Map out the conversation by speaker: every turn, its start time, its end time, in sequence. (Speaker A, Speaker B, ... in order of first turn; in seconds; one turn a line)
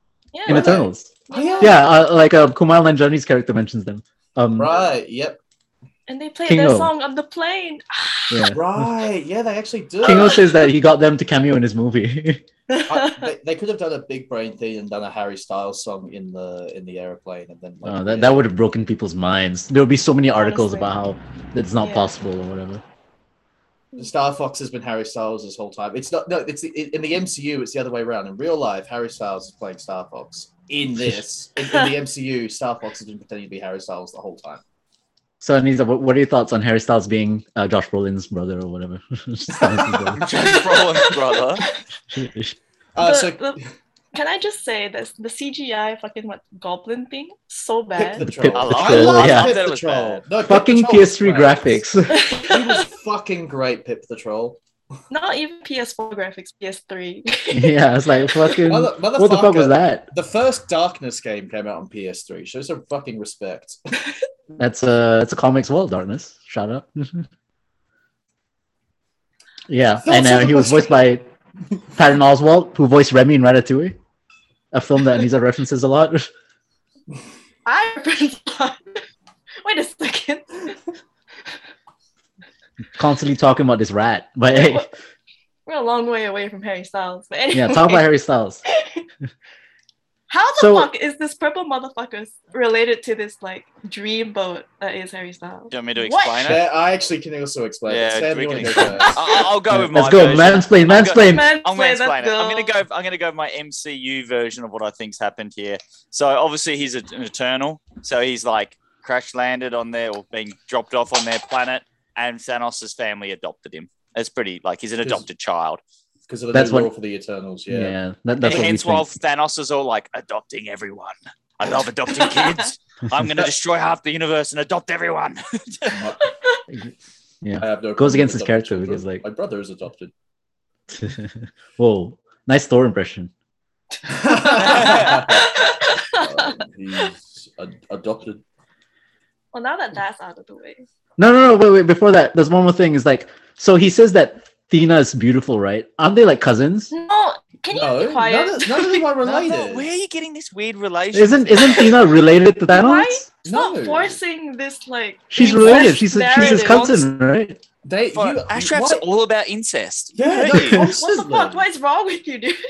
Speaker A: 0.3-1.9
Speaker B: 0.5-1.8
Speaker C: 0.5-4.7
Speaker B: 4.6-5.4
Speaker A: 6.1-8.5
Speaker C: 6.5-6.9
Speaker C: 8.3-8.7
Speaker B: 8.5-10.6
Speaker C: 10.0-12.4
Speaker A: 10.1-10.6
Speaker A: 12.7-13.3
Speaker B: 12.9-18.5
Speaker C: 17.8-22.8
Speaker A: 20.4-20.9
Speaker A: 21.8-22.1
Speaker B: 24.0-34.6
Speaker C: 30.9-31.2
Speaker A: 31.7-31.9
Speaker C: 35.4-40.3
Speaker B: 39.5-41.1
Speaker D: 40.2-41.6
Speaker A: 41.1-41.7
Speaker C: 42.1-42.6
Speaker B: 43.0-43.5
Speaker A: 43.0-43.6
Speaker A: 44.1-48.3
Speaker B: 48.0-54.6
Speaker C: 48.2-49.6
Speaker D: 48.5-50.3
Speaker C: 50.4-52.2
Speaker A: 52.1-52.9
Speaker A: 55.1-58.7
Speaker C: 57.5-60.1
Speaker B: 58.7-63.8
Speaker C: 64.6-67.3
Speaker C: 69.7-71.3
Speaker B: 70.1-70.9
Speaker A: 70.5-70.8
Speaker C: 72.0-74.0
Speaker C: 74.7-76.3
Speaker A: 77.7-79.0
Speaker A: 79.6-80.8
Speaker C: 83.0-84.9
Speaker A: 84.5-84.8
Speaker A: 85.7-88.1
Speaker C: 87.5-88.6
Speaker A: 88.7-89.0
Speaker A: 90.3-96.6
Speaker C: 90.6-90.9
Speaker D: 95.7-96.7
Speaker B: 96.5-99.4
Speaker D: 97.9-115.8
Speaker A: 98.8-99.5
Speaker C: 99.7-101.5
Speaker A: 101.2-102.8
Speaker B: 116.3-118.0
Speaker C: 116.5-116.9
Speaker C: 117.7-119.1
Speaker D: 118.4-126.1
Speaker A: 122.2-122.7
Speaker B: 125.9-126.2
Speaker A: 126.2-126.6
Speaker C: 126.7-129.2
Speaker B: 127.6-130.1
Speaker C: 130.9-133.3
Speaker B: 134.1-138.4
Speaker A: 134.1-137.1
Speaker D: 134.6-135.3
Speaker A: 139.5-140.9
Speaker C: 141.2-146.9
Speaker A: 146.9-149.1
Speaker B: 147.7-149.9
Speaker D: 149.2-152.0
Speaker C: 151.1-153.3
Speaker A: 152.7-157.0
Speaker B: 153.4-154.2
Speaker C: 155.3-157.6
Speaker D: 155.5-157.1
Speaker B: 157.8-159.0
Speaker D: 158.1-160.9
Speaker B: 160.2-161.6
Speaker A: 160.2-162.6